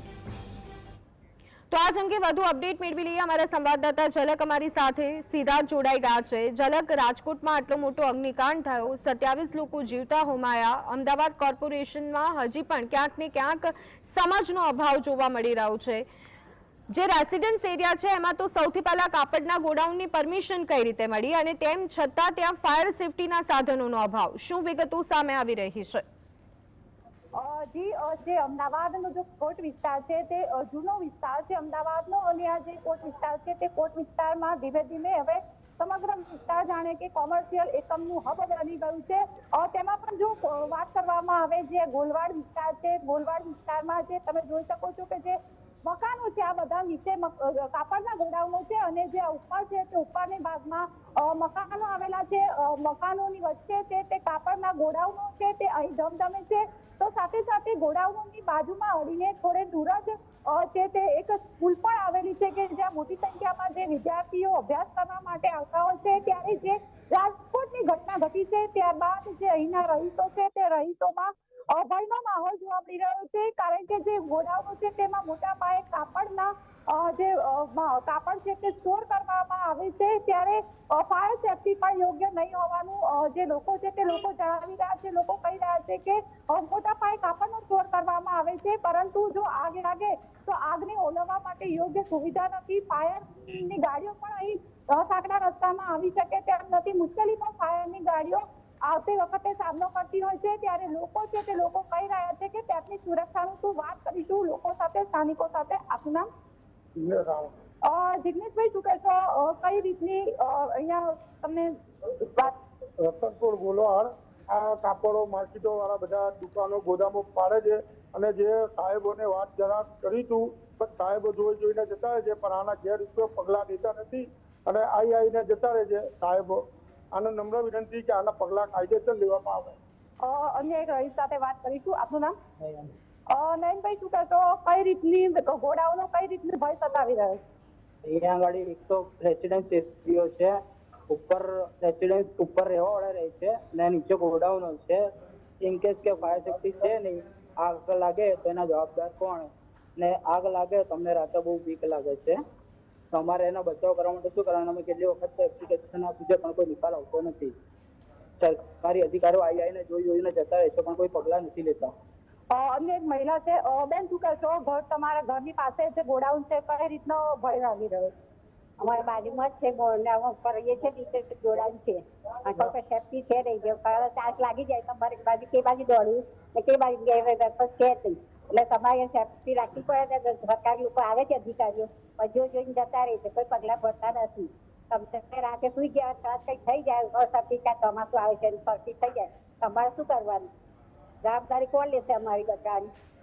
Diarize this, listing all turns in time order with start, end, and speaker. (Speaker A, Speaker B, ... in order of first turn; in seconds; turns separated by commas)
Speaker A: 1.7-16.0, Speaker A: 16.9-26.0, Speaker B: 27.4-106.3, Speaker C: 107.0-107.5, Speaker B: 107.8-112.6, Speaker C: 113.0-126.6, Speaker C: 127.1-129.8, Speaker B: 130.2-132.3, Speaker D: 132.6-132.9, Speaker B: 133.3-137.4, Speaker D: 138.0-140.5, Speaker D: 141.1-145.0, Speaker D: 145.6-152.4, Speaker D: 153.1-157.5, Speaker D: 158.4-161.9, Speaker B: 162.5-168.1, Speaker E: 168.8-190.5, Speaker E: 191.2-192.9